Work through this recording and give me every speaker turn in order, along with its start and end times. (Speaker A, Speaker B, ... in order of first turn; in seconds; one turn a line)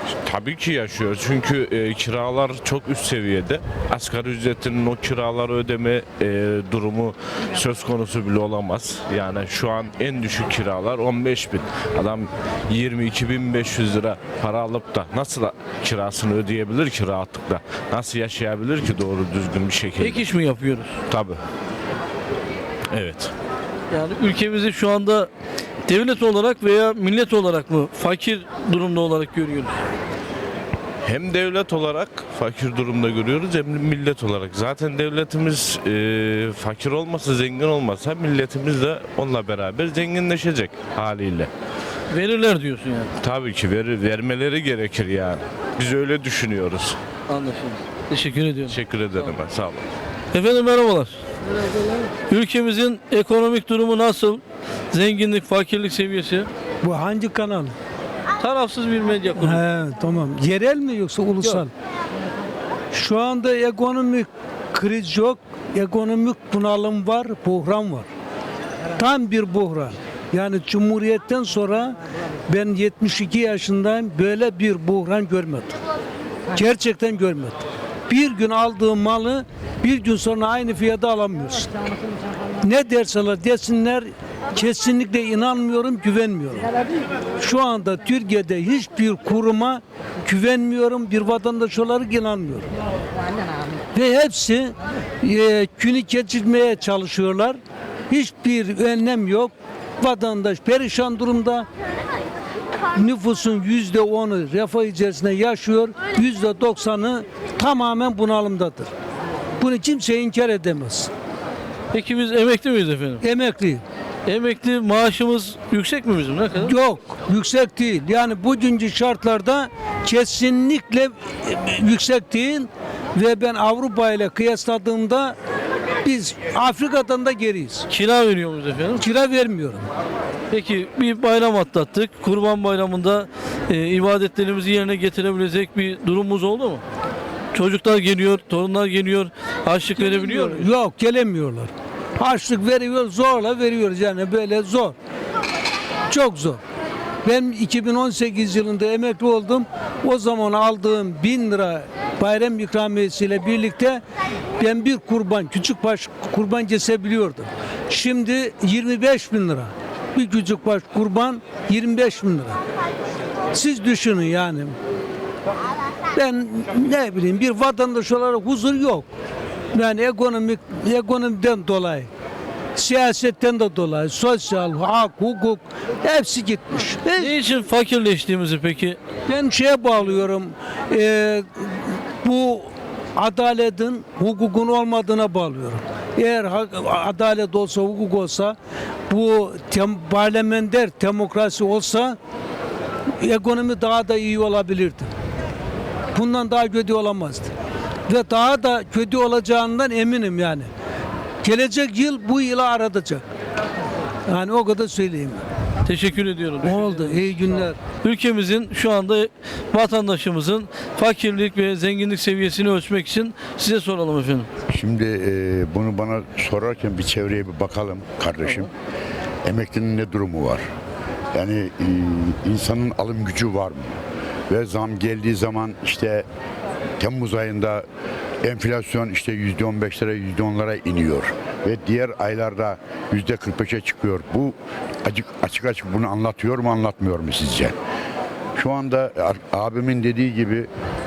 Speaker A: 0.2-20.3
Speaker B: 20.0-20.9
Speaker A: 21.1-21.4
Speaker A: 22.9-23.3
Speaker B: 23.9-25.3
Speaker B: 25.9-29.8
Speaker A: 31.0-41.5
Speaker B: 42.1-43.1
Speaker A: 43.2-47.0
Speaker B: 47.3-49.3
Speaker A: 48.7-49.9
Speaker B: 50.3-54.4
Speaker B: 54.9-56.5
Speaker C: 56.8-57.7
Speaker B: 58.4-59.6
Speaker C: 59.4-61.7
Speaker C: 62.9-68.1
Speaker C: 69.0-72.0
Speaker C: 72.5-75.7
Speaker C: 76.5-81.7
Speaker C: 82.6-86.7
Speaker C: 87.4-92.7
Speaker C: 93.9-97.6
Speaker C: 98.1-101.7
Speaker C: 102.9-108.9
Speaker C: 109.6-111.1
Speaker B: 111.9-113.2
Speaker C: 113.2-113.8
Speaker B: 114.2-116.7
Speaker C: 116.6-125.4
Speaker C: 126.0-127.9
Speaker B: 127.9-129.0
Speaker C: 129.0-129.9
Speaker B: 130.5-136.8
Speaker B: 137.5-140.7
Speaker C: 139.9-144.9
Speaker C: 146.1-146.6
Speaker C: 147.2-154.0
Speaker C: 154.6-162.6
Speaker C: 163.5-164.8
Speaker C: 166.1-169.1
Speaker C: 169.7-172.1
Speaker C: 172.8-177.3
Speaker B: 177.2-179.0
Speaker C: 179.3-188.6
Speaker C: 189.1-192.2
Speaker C: 193.2-195.1
Speaker C: 196.1-197.5
Speaker C: 198.1-200.7
Speaker C: 201.4-203.2
Speaker C: 204.3-205.4
Speaker B: 205.8-207.4
Speaker C: 206.6-207.8
Speaker B: 208.0-214.5
Speaker D: 214.7-218.7
Speaker D: 219.4-220.6
Speaker D: 221.3-223.9
Speaker D: 224.5-226.3
Speaker D: 227.0-227.8
Speaker D: 228.4-237.7
Speaker D: 238.6-240.7